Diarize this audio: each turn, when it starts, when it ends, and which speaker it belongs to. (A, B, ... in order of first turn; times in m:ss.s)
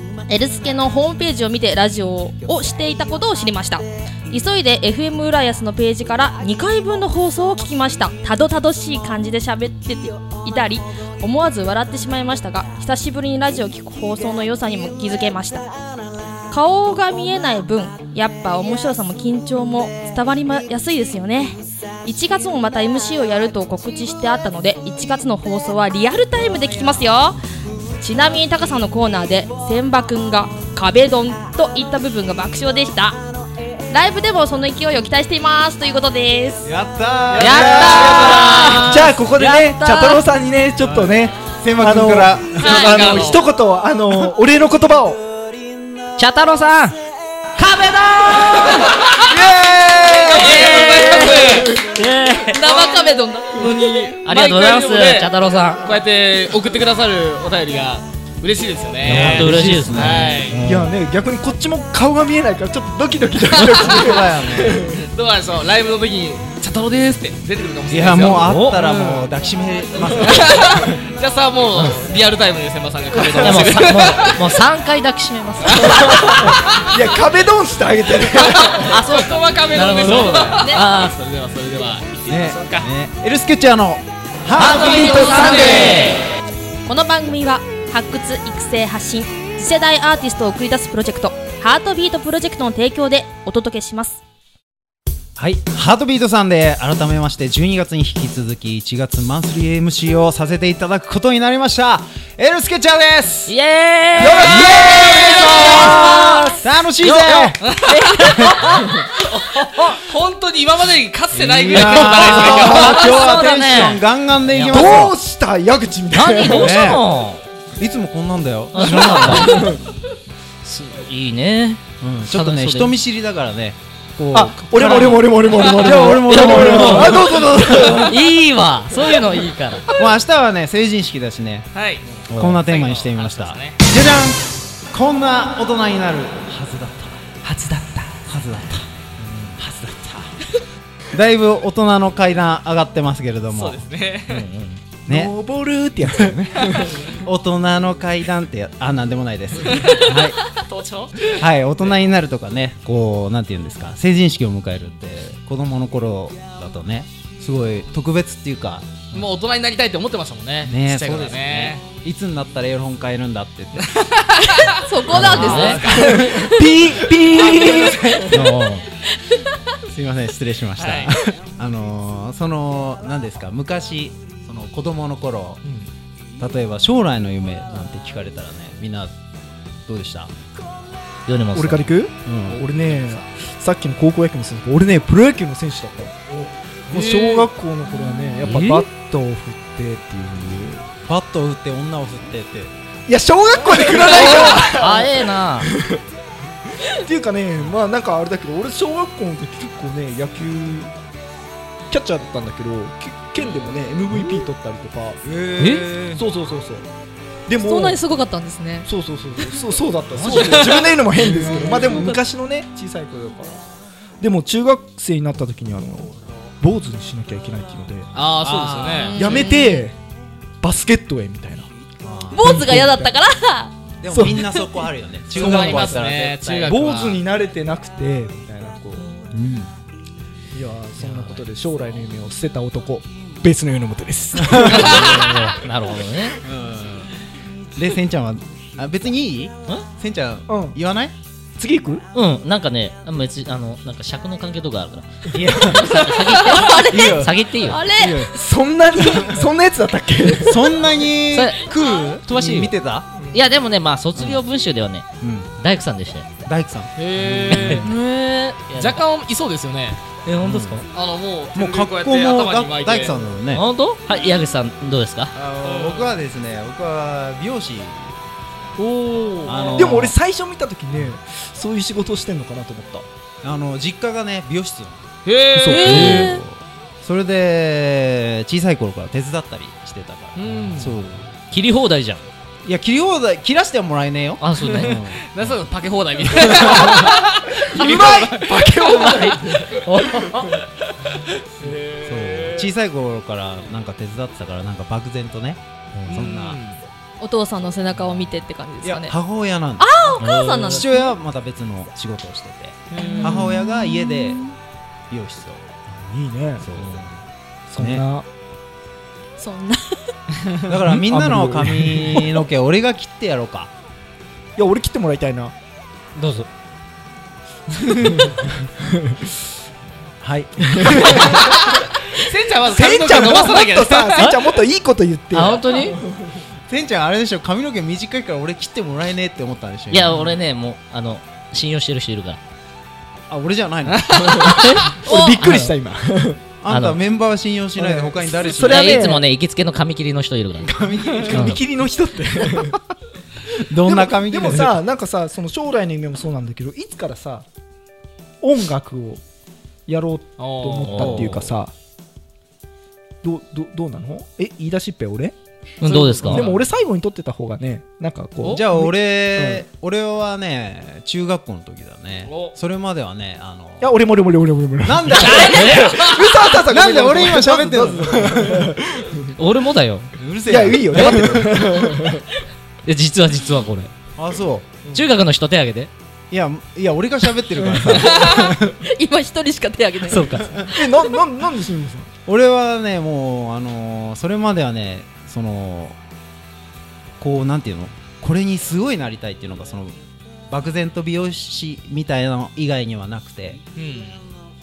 0:00.3-0:15.6 A
0:16.5-0:27.4 A
0:27.9-0:33.2 A
0:33.9-0:36.7 A
0:36.6-0:39.2 B
0:37.3-0:40.2 C
0:37.6-0:38.9 D
0:37.7-0:38.4 A
0:38.8-0:45.2 E
0:41.6-0:43.2 B
0:42.6-0:43.1 A
0:42.6-0:43.4 D
0:46.2-0:47.0 C
0:47.6-0:49.0 C
0:49.1-0:51.4 B
0:50.2-0:51.8 D
0:50.3-0:52.6 C
0:52.5-0:53.8 A
0:52.6-1:00.6 D
0:53.8-0:55.9 C
0:59.0-1:00.3 B
0:59.0-1:00.9 C
1:00.6-1:05.1 E
1:03.7-1:04.8 B
1:04.9-1:09.3 D
1:07.9-1:11.0 B
1:08.3-1:08.8 C
1:10.0-1:14.4 D
1:11.7-1:12.0 C
1:13.4-1:16.2 C
1:15.6-1:16.8 D
1:15.6-1:19.0 E
1:18.3-1:22.9 D
1:18.9-1:21.1 C
1:20.0-1:20.6 B
1:20.6-1:20.8 A
1:22.3-1:26.0 B
1:24.5-1:26.2 C
1:24.6-1:26.1 D
1:26.8-1:34.2 A
1:35.4-1:43.5 B
1:43.5-1:50.0 C
1:44.1-1:46.1 E
1:44.4-1:47.6 B
1:44.8-1:45.7 D
1:47.6-1:48.5 D
1:47.9-1:48.3 A
1:49.9-1:53.3 D
1:51.3-1:55.1 B
1:51.7-1:55.0 C
1:54.6-1:57.0 E
1:56.1-1:57.4 C
1:56.4-1:57.0 B
1:57.8-1:59.6 B
1:58.7-1:59.7 C
1:59.1-1:59.8 E
2:00.6-2:02.9 C
2:02.0-2:08.0 B
2:04.3-2:08.2 E
2:05.5-2:05.9 D
2:06.2-2:07.3 C
2:07.8-2:09.9 C
2:10.0-2:11.7 B
2:11.7-2:13.8 D
2:12.3-2:17.4 B
2:17.4-2:18.2 E
2:18.2-2:18.9 B
2:19.2-2:19.6 C
2:19.6-2:20.4 B
2:21.1-2:23.8 B
2:23.5-2:24.4 D
2:24.3-2:24.8 C
2:25.1-2:25.3 B
2:25.1-2:27.2 E
2:26.0-2:30.5 B
2:29.7-2:31.9 D
2:31.2-2:39.2 B
2:39.1-2:41.8 D
2:40.6-2:43.9 B
2:43.9-2:44.7 D
2:44.4-2:46.5 A
2:45.1-2:48.8 B
2:45.1-2:45.8 C
2:45.2-2:46.3 D
2:45.9-2:48.5 E
2:48.3-2:48.8 C
2:49.8-2:55.6 B
2:50.8-2:51.2 D
2:56.4-2:59.1 B
2:59.8-3:00.3 B
3:01.3-3:01.9 C
3:01.5-3:10.9 E
3:02.2-3:02.6 B
3:02.9-3:03.2 D
3:06.9-3:07.5 D
3:08.4-3:08.8 C
3:11.0-3:12.7 B
3:13.1-3:16.0 E
3:14.1-3:15.7 C
3:16.8-3:20.9 E
3:21.9-3:25.2 E
3:25.2-3:26.2 B
3:25.6-3:25.9 C
3:26.1-3:26.9 E
3:27.5-3:28.0 E
3:27.6-3:28.9 A
3:28.8-3:33.6 E
3:30.2-3:30.7 C
3:30.3-3:31.0 D
3:31.4-3:32.1 B
3:34.2-3:38.2 E
3:38.1-3:39.4 D
3:38.7-3:39.9 A
3:39.1-3:40.0 E
3:40.6-3:41.7 E
3:42.0-3:42.8 B
3:42.3-3:43.7 A
3:42.4-3:43.1 E
3:44.0-3:46.6 B
3:44.1-3:44.4 E
3:44.4-3:44.7 A
3:45.3-3:47.2 D
3:45.4-3:46.0 E
3:46.6-3:49.1 E
3:49.3-3:49.7 B
3:50.5-3:55.2 E
3:54.4-3:55.3 B
3:54.8-3:56.4 C
3:56.4-3:57.2 B
3:57.7-4:01.1 B
4:00.5-4:00.8 E
4:01.6-4:02.0 E
4:02.1-4:05.3 C
4:05.3-4:06.2 B
4:05.4-4:05.9 E
4:05.8-4:08.3 A
4:06.0-4:07.8 C
4:06.9-4:08.3 B
4:08.3-4:10.7 E
4:09.1-4:09.3 B
4:10.4-4:13.1 B
4:11.3-4:12.7 C
4:13.3-4:15.0 C
4:14.2-4:14.4 B
4:15.2-4:15.5 B
4:15.6-4:16.3 C
4:16.4-4:17.8 B
4:17.0-4:18.0 D
4:17.5-4:17.8 C
4:17.8-4:18.6 A
4:18.6-4:20.0 D
4:18.7-4:19.0 C
4:20.2-4:20.9 C
4:20.4-4:20.8 B
4:20.9-4:23.3 D
4:21.5-4:23.7 B
4:23.5-4:25.3 C
4:25.3-4:28.2 B
4:25.6-4:26.2 D
4:28.8-4:30.0 D
4:29.4-4:30.1 B
4:29.7-4:33.1 E
4:33.4-4:35.1 B
4:35.2-4:36.3 D
4:35.5-4:36.4 E
4:35.7-4:41.3 B
4:35.9-4:36.4 A
4:40.4-4:40.9 D
4:41.5-4:42.2 C
4:42.6-4:45.5 B
4:44.4-4:45.0 C
4:44.6-4:49.5 D
4:46.3-4:47.2 B
4:46.9-4:50.5 E
4:48.9-4:50.5 C
4:50.4-4:52.7 D
4:51.9-4:56.6 B
4:56.1-4:56.8 D
4:57.2-4:59.1 A
4:58.8-5:04.4 B
4:59.8-5:01.2 A
5:00.2-5:00.8 C
5:02.9-5:03.4 D
5:02.9-5:04.5 A
5:05.1-5:05.7 B
5:05.9-5:06.6 E
5:06.6-5:07.2 B
5:07.7-5:08.2 E
5:07.8-5:08.0 B
5:09.4-5:10.1 A
5:10.6-5:13.7 B
5:10.9-5:12.5 E
5:14.6-5:15.5 E
5:16.2-5:16.5 C
5:18.8-5:19.2 E
5:20.2-5:21.8 B
5:20.7-5:21.5 E
5:22.1-5:24.3 D
5:22.6-5:26.4 E
5:25.3-5:26.0 C
5:26.7-5:30.4 B
5:29.9-5:32.4 C
5:33.3-5:34.5 B
5:33.9-5:34.6 D
5:34.4-5:36.4 E
5:34.5-5:35.7 C
5:35.0-5:35.4 A
5:36.6-5:39.2 B
5:36.7-5:37.0 C
5:37.8-5:39.2 E
5:38.6-5:40.7 C
5:40.6-5:41.6 B
5:41.3-5:42.8 E
5:41.3-5:41.6 C
5:43.5-5:44.8 B
5:43.8-5:47.4 E
5:48.4-5:49.2 E
5:49.9-5:51.7 E
5:50.4-5:51.0 D
5:50.9-5:51.3 C
5:51.0-5:51.5 B
5:53.2-5:59.6 E
5:55.8-5:56.4 C
5:56.3-5:56.5 B
5:58.4-6:04.0 B
6:02.2-6:02.5 D
6:03.8-6:09.3 E
6:04.8-6:08.7 B
6:05.2-6:06.3 D
6:05.3-6:05.9 C
6:09.4-6:10.1 C
6:10.2-6:12.1 B
6:10.4-6:12.2 E
6:10.9-6:11.3 C
6:12.8-6:13.9 C
6:14.2-6:14.9 B
6:14.9-6:15.9 C
6:16.3-6:18.8 B
6:17.9-6:21.1 A
6:20.1-6:20.6 C
6:20.3-6:20.7 B
6:20.6-6:22.1 E
6:22.2-6:26.0 B
6:27.2-6:30.0 B
6:30.5-6:33.6 B
6:33.8-6:34.2 D